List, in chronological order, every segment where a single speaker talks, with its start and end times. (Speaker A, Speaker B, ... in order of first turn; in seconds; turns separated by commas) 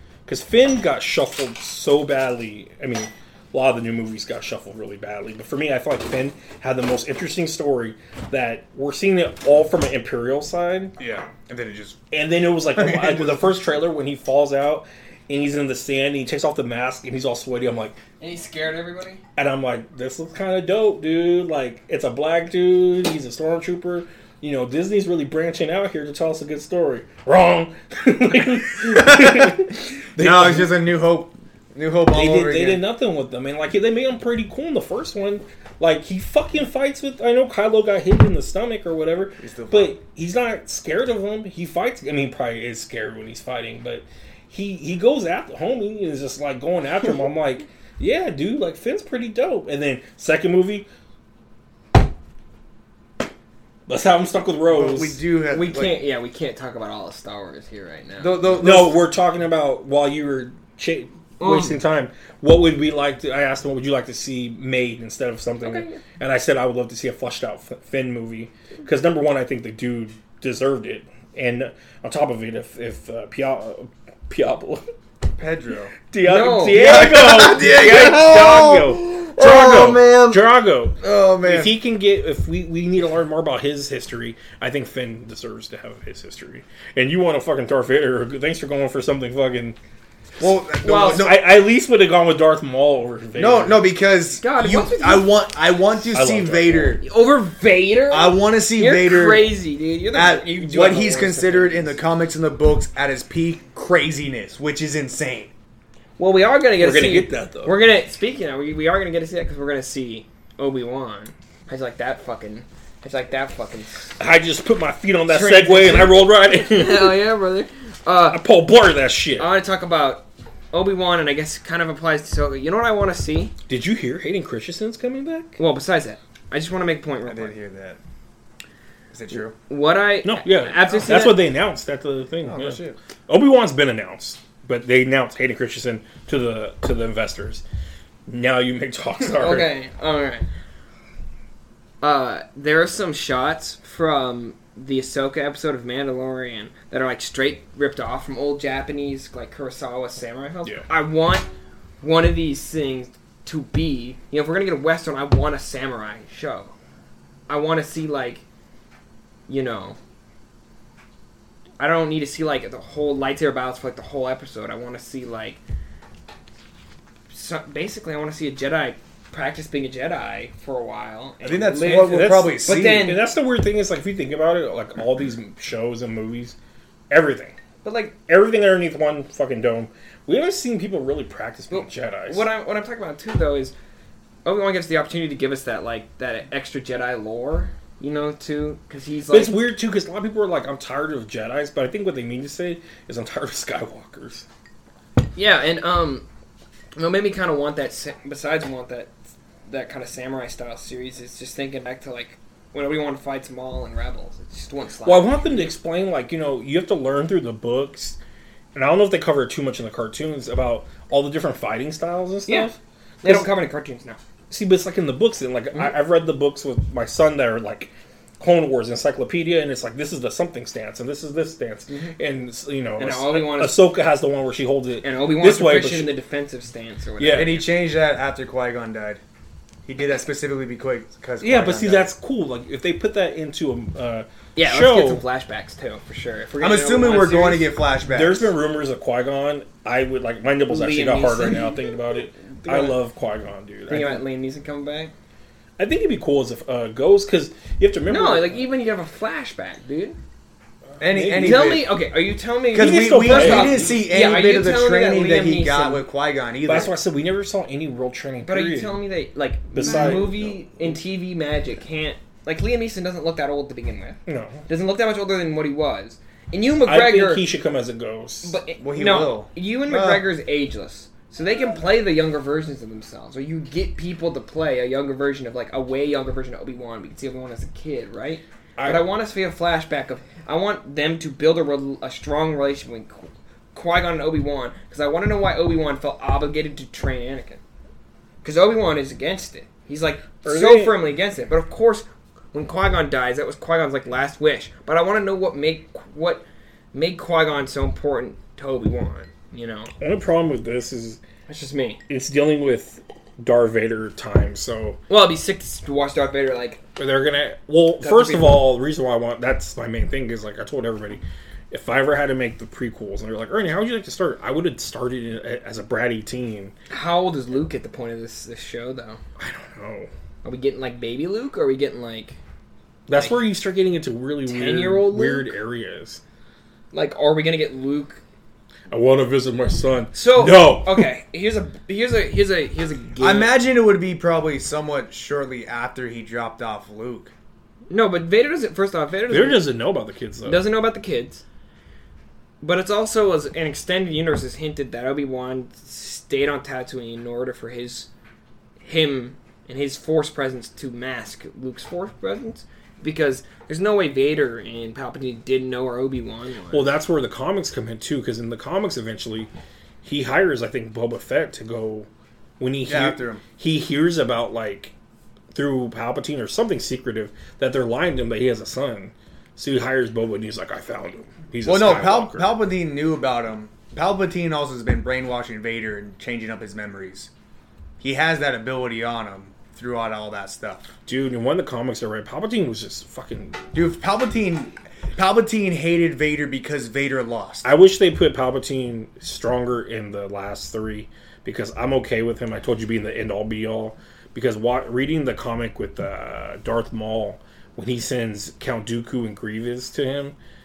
Speaker A: 0.2-10.9, Speaker B: 11.0-12.0, Speaker A: 12.1-18.0, Speaker B: 12.8-13.5, Speaker C: 18.2-19.2, Speaker A: 19.4-30.7, Speaker B: 28.8-29.6, Speaker B: 30.2-32.8, Speaker A: 32.1-50.9, Speaker B: 39.4-40.0, Speaker A: 53.9-55.2, Speaker B: 54.6-56.0, Speaker C: 55.5-58.5, Speaker B: 58.2-59.0, Speaker A: 58.6-74.8, Speaker C: 61.4-61.8, Speaker C: 65.6-66.0, Speaker B: 75.4-75.9, Speaker A: 76.1-89.8, Speaker C: 76.2-77.0, Speaker B: 76.7-81.8, Speaker B: 90.4-91.5, Speaker C: 90.8-91.3, Speaker A: 91.0-93.9, Speaker B: 93.3-97.0, Speaker C: 94.4-95.4, Speaker A: 96.1-97.0, Speaker C: 97.0-102.0, Speaker B: 98.1-99.5, Speaker B: 100.1-105.5, Speaker C: 106.2-114.2, Speaker A: 106.8-107.8, Speaker A: 114.2-117.3, Speaker C: 115.3-118.4, Speaker A: 118.3-119.5, Speaker C: 119.4-123.5, Speaker A: 123.7-125.6, Speaker C: 125.6-127.5, Speaker B: 127.2-128.0, Speaker B: 129.1-129.6, Speaker C: 129.7-131.4, Speaker A: 130.2-137.6, Speaker B: 132.4-133.0, Speaker A: 138.3-139.7, Speaker C: 139.3-140.5, Speaker C: 142.0-151.5, Speaker C: 152.0-156.7, Speaker C: 157.5-158.4, Speaker C: 159.5-160.0, Speaker C: 161.8-165.6, Speaker C: 167.3-173.2, Speaker B: 171.4-173.1, Speaker A: 172.0-176.6, Speaker A: 177.1-177.6, Speaker C: 177.8-178.2, Speaker A: 178.3-182.5, Speaker C: 181.7-183.7, Speaker C: 184.4-189.6, Speaker A: 189.3-194.4, Speaker C: 195.3-196.2, Speaker C: 196.9-199.1, Speaker C: 199.7-205.6, Speaker A: 205.0-208.2, Speaker A: 208.7-213.5, Speaker C: 213.2-214.2, Speaker A: 214.5-226.2, Speaker C: 221.9-222.1, Speaker C: 223.0-223.8, Speaker C: 225.0-227.6, Speaker A: 227.2-227.6, Speaker B: 227.3-229.2, Speaker B: 229.8-232.1, Speaker A: 231.4-235.2, Speaker C: 234.6-237.7, Speaker B: 236.6-238.5, Speaker A: 238.0-244.2, Speaker C: 240.7-241.8, Speaker C: 242.4-243.0, Speaker C: 243.9-245.1, Speaker A: 245.8-248.7, Speaker C: 248.1-250.2, Speaker A: 251.0-251.8, Speaker B: 251.0-251.9, Speaker C: 251.4-256.1, Speaker B: 252.7-256.9, Speaker A: 252.7-254.0, Speaker A: 256.6-259.0, Speaker C: 258.4-267.4, Speaker A: 259.7-260.4, Speaker B: 259.9-260.5, Speaker A: 264.2-264.6, Speaker A: 266.9-268.6, Speaker C: 268.4-287.6, Speaker B: 268.8-270.3, Speaker A: 278.8-279.1, Speaker C: 288.4-299.9, Speaker A: 290.4-291.0, Speaker A: 300.0-301.2, Speaker C: 301.5-302.0, Speaker A: 302.1-305.0, Speaker C: 305.1-306.8, Speaker A: 306.9-316.7, Speaker C: 308.0-308.6, Speaker C: 316.9-319.2, Speaker A: 319.4-320.1, Speaker C: 320.4-322.4, Speaker A: 323.1-326.2, Speaker C: 324.4-325.5, Speaker C: 326.9-328.2, Speaker A: 328.9-331.1, Speaker C: 330.1-333.5, Speaker B: 333.2-337.3, Speaker C: 337.9-339.7, Speaker A: 339.3-340.6, Speaker C: 340.4-341.4, Speaker C: 342.6-348.1, Speaker C: 348.8-356.9, Speaker A: 356.7-359.5, Speaker A: 360.0-362.1, Speaker A: 362.6-364.9, Speaker B: 362.9-363.4, Speaker A: 365.5-372.5, Speaker B: 371.6-377.3, Speaker B: 378.0-380.9, Speaker A: 381.1-383.6, Speaker B: 383.7-387.6, Speaker A: 387.6-400.3